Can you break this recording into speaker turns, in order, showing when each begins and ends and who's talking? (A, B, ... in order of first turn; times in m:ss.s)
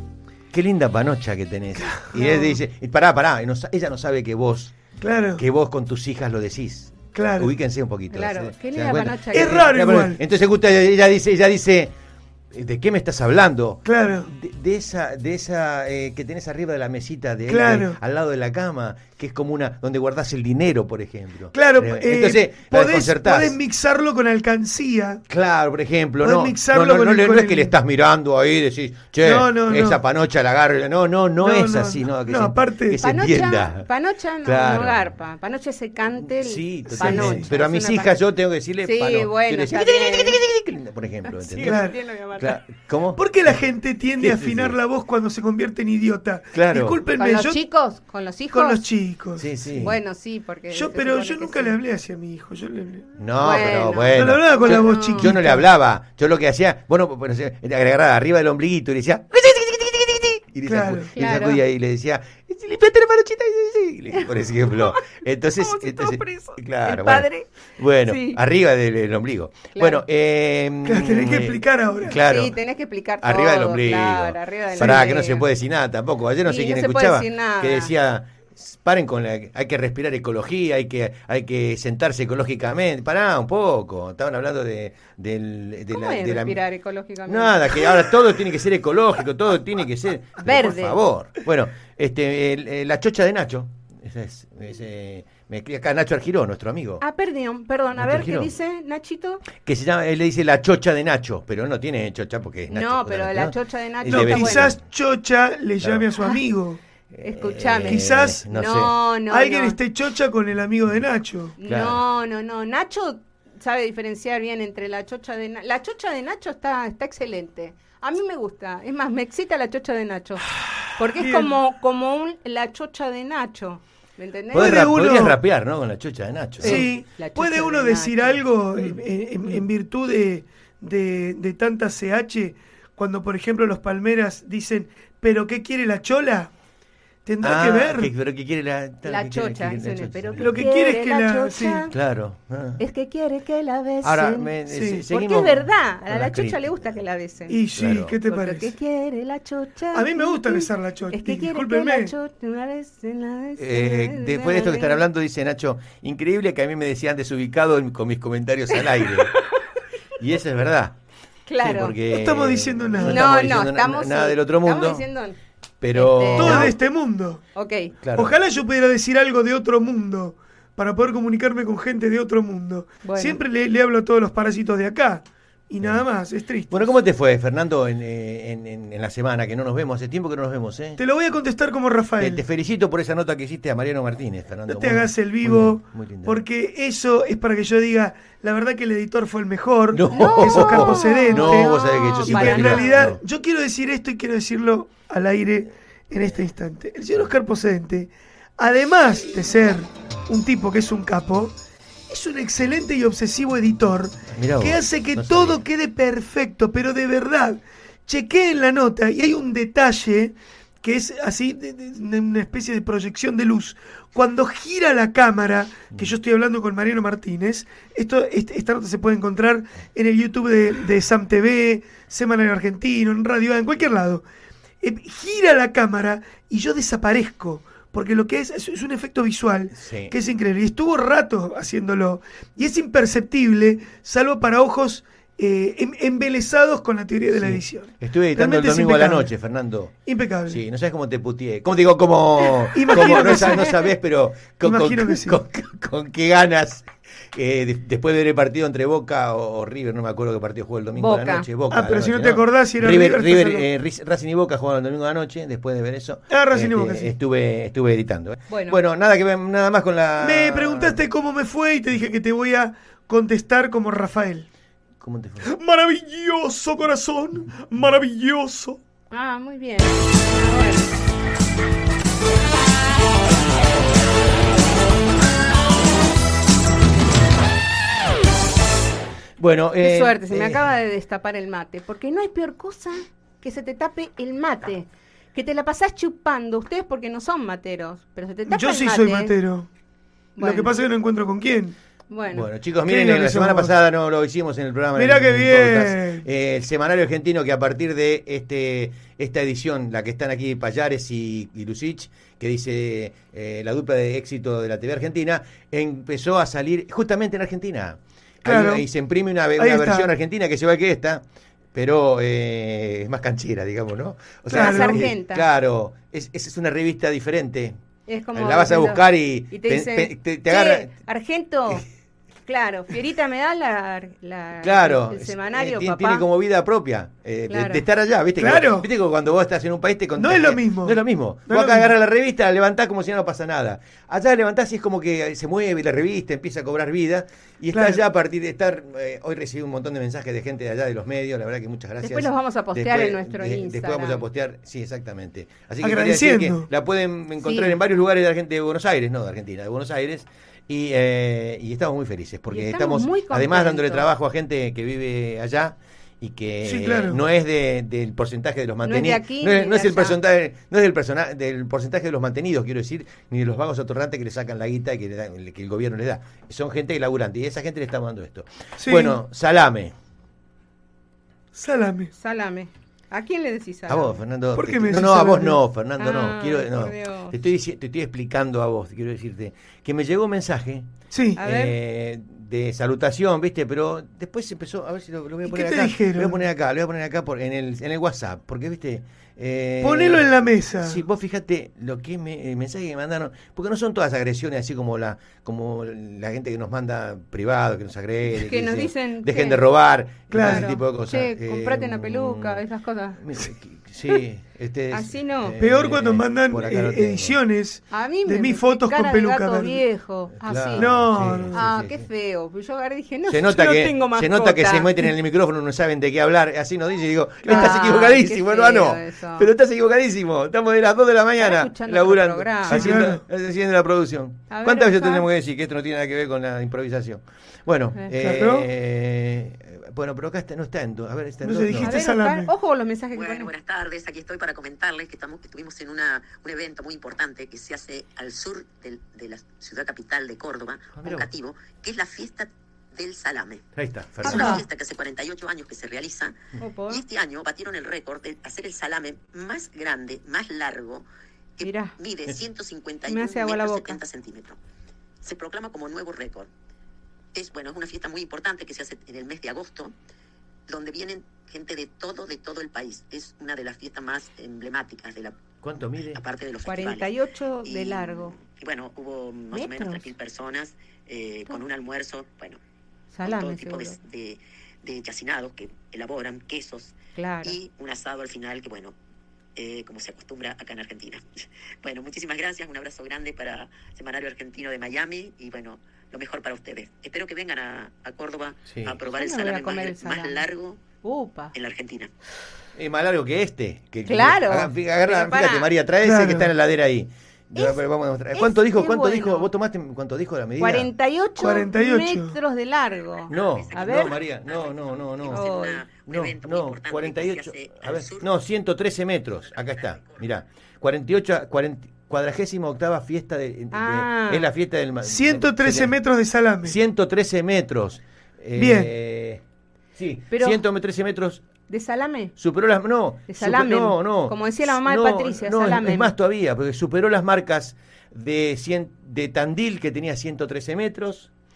0:00.5-0:04.7 A
0:01.8-0:02.4 B
0:02.2-0:02.5 C
0:05.0-0:05.4 B
0:05.4-0:11.9 A
0:07.1-0:07.5 B
0:08.1-0:09.7 C
0:09.3-0:10.2 B
0:12.5-0:23.6 A
0:13.8-0:14.3 B
0:17.5-0:18.0 B
0:21.5-0:25.2 B
0:25.3-0:33.8 A
0:26.2-0:27.7 B
0:29.2-0:30.0 B
0:31.4-0:33.0 B
0:33.0-0:38.2 C
0:34.4-0:35.1 A
0:36.2-0:43.6 A
0:36.9-0:37.5 B
0:38.8-0:40.4 C
0:41.2-0:42.6 C
0:41.6-0:41.9 B
0:43.2-0:47.6 B
0:44.2-0:44.8 A
0:46.5-0:47.0 A
0:47.2-0:48.8 C
0:48.5-0:49.5 B
0:49.4-0:50.0 A
0:49.7-0:51.8 C
0:50.7-0:53.1 B
0:53.2-1:12.6 A
0:53.4-0:55.3 C
0:54.1-0:55.6 B
1:00.6-1:01.1 B
1:01.1-1:01.6 C
1:04.2-1:07.5 C
1:08.0-1:08.4 C
1:09.7-1:10.0 C
1:10.8-1:12.2 B
1:12.2-1:15.4 C
1:13.2-1:26.6 A
1:14.8-1:15.0 B
1:16.4-1:17.9 C
1:25.9-1:27.9 C
1:27.2-1:37.0 A
1:30.4-1:31.0 C
1:37.0-1:39.4 C
1:38.0-1:38.5 A
1:39.6-1:44.8 A
1:42.7-1:44.7 C
1:44.1-1:46.8 B
1:45.8-1:46.0 A
1:47.1-1:48.9 A
1:47.2-1:49.8 C
1:47.9-1:48.4 B
1:49.3-1:51.5 B
1:51.6-2:04.9 C
1:51.6-1:52.0 A
2:01.2-2:01.5 B
2:04.5-2:05.4 B
2:04.5-2:06.9 A
2:06.6-2:08.4 C
2:06.6-2:16.5 B
2:17.2-2:18.1 B
2:17.4-2:20.7 A
2:19.0-2:21.9 C
2:20.4-2:21.9 B
2:21.9-2:22.8 A
2:22.8-2:24.5 C
2:24.0-2:27.0 A
2:24.7-2:25.0 B
2:25.1-2:27.7 C
2:27.5-2:28.7 B
2:27.7-2:28.2 A
2:28.2-2:35.0 C
2:29.9-2:32.1 B
2:33.6-2:39.3 A
2:39.3-2:39.6 C
2:40.2-2:41.0 A
2:41.5-2:42.0 C
2:41.6-2:45.1 A
2:42.1-2:43.2 B
2:43.0-2:45.4 C
2:45.8-2:46.7 A
2:45.9-2:46.8 C
2:46.4-2:47.4 B
2:47.5-2:47.9 C
2:48.0-2:48.4 A
2:48.2-2:56.9 B
2:53.0-2:53.4 C
2:56.7-3:01.0 A
3:01.0-3:02.4 B
3:02.2-3:06.4 A
3:04.7-3:21.6 B
3:09.9-3:13.2 A
3:10.1-3:13.1 C
3:22.1-3:44.2 B
3:24.3-3:25.6 A
3:44.8-3:59.3 B
3:49.7-3:50.1 A
3:57.3-4:21.1 A
4:00.0-4:00.6 B
4:02.7-4:03.7 B
4:02.9-4:03.6 C
4:04.6-4:05.4 B
4:11.0-4:11.5 C
4:11.7-4:13.6 B
4:16.3-4:17.1 B
4:18.5-4:18.8 C
4:20.2-4:24.5 B
4:25.0-4:25.5 A
4:25.4-4:28.8 B
4:29.1-4:30.9 C
4:39.4-4:40.6 A
4:39.8-4:49.3 C
4:48.5-4:49.7 B
4:50.4-4:50.8 C
4:50.4-4:51.8 B
4:52.1-4:52.5 C
4:52.3-5:17.8 A
4:52.9-4:53.7 B
4:55.0-4:56.2 B
5:08.4-5:08.8 B
5:09.6-5:10.1 B
5:14.5-5:15.0 B
5:14.5-5:15.4 C
5:18.1-5:21.8 C
5:18.3-5:20.9 A
5:22.5-5:26.2 C
5:24.6-6:09.9 A
5:27.5-5:27.8 C
5:28.4-5:28.8 B
5:30.2-5:31.9 B
5:37.7-5:38.0 B
5:42.0-5:44.2 C
5:45.8-5:46.7 B
5:47.4-5:47.8 C
5:52.5-5:54.1 C
5:56.6-5:57.2 B
5:58.8-6:00.2 C
6:08.8-6:09.2 B
6:11.5-6:12.1 B
6:12.2-6:14.2 C
6:13.9-6:30.3 A
6:14.5-6:15.6 B
6:16.0-6:17.3 C
6:21.1-6:21.4 B
6:21.4-6:21.8 C
6:25.4-6:26.4 B
6:29.8-6:31.0 B
6:30.8-6:42.6 A
6:38.3-6:39.6 C
6:40.3-6:40.7 B
6:40.4-6:43.2 C
6:43.2-6:47.4 A
6:44.9-6:45.6 C
6:45.6-6:49.8 B
6:47.9-6:50.9 C
6:50.4-6:52.1 A
6:50.8-6:51.6 B
6:51.5-6:55.1 C
6:53.3-7:12.0 A
6:57.4-6:57.8 B
6:57.4-6:59.5 C
7:01.4-7:03.0 C
7:02.7-7:03.2 B
7:04.5-7:05.2 C
7:08.1-7:08.7 B
7:11.4-7:12.5 B
7:11.8-7:13.5 C
7:13.1-7:23.6 D
7:21.0-7:21.3 A
7:23.7-7:24.6 A
7:24.2-7:26.4 D
7:24.2-7:24.6 C
7:26.6-7:27.0 C
7:26.9-7:31.0 D
7:31.6-7:34.6 D
7:31.6-7:31.9 C
7:33.0-7:34.0 C
7:35.2-7:36.5 D
7:37.3-7:39.9 D
7:40.7-7:45.4 D
7:45.6-7:46.2 A
7:46.1-7:47.1 D
7:46.6-7:48.3 C
7:47.6-7:52.6 D
7:49.5-7:50.1 C
7:53.1-7:54.0 C
7:53.2-7:58.9 D
7:57.2-7:57.6 C
7:59.6-8:01.2 D
8:01.8-8:10.8 D
8:08.7-8:09.0 A
8:09.1-8:10.4 C
8:11.0-8:11.5 C
8:11.5-8:12.1 D
8:12.8-8:20.9 A
8:14.0-8:15.7 C
8:16.0-8:16.5 B
8:17.5-8:17.8 C
8:18.3-8:19.5 C
8:20.6-8:24.2 C
8:21.4-8:22.4 B
8:23.3-8:35.9 A
8:23.3-8:28.2 D
8:25.3-8:25.8 C
8:29.8-8:30.1 D
8:33.7-8:34.5 C
8:35.0-8:36.8 B
8:36.6-8:39.4 A
8:38.6-8:38.9 B
8:40.0-8:41.4 A
8:40.3-8:40.6 C
8:41.7-8:42.3 C
8:42.4-8:51.3 A
8:43.3-8:46.1 C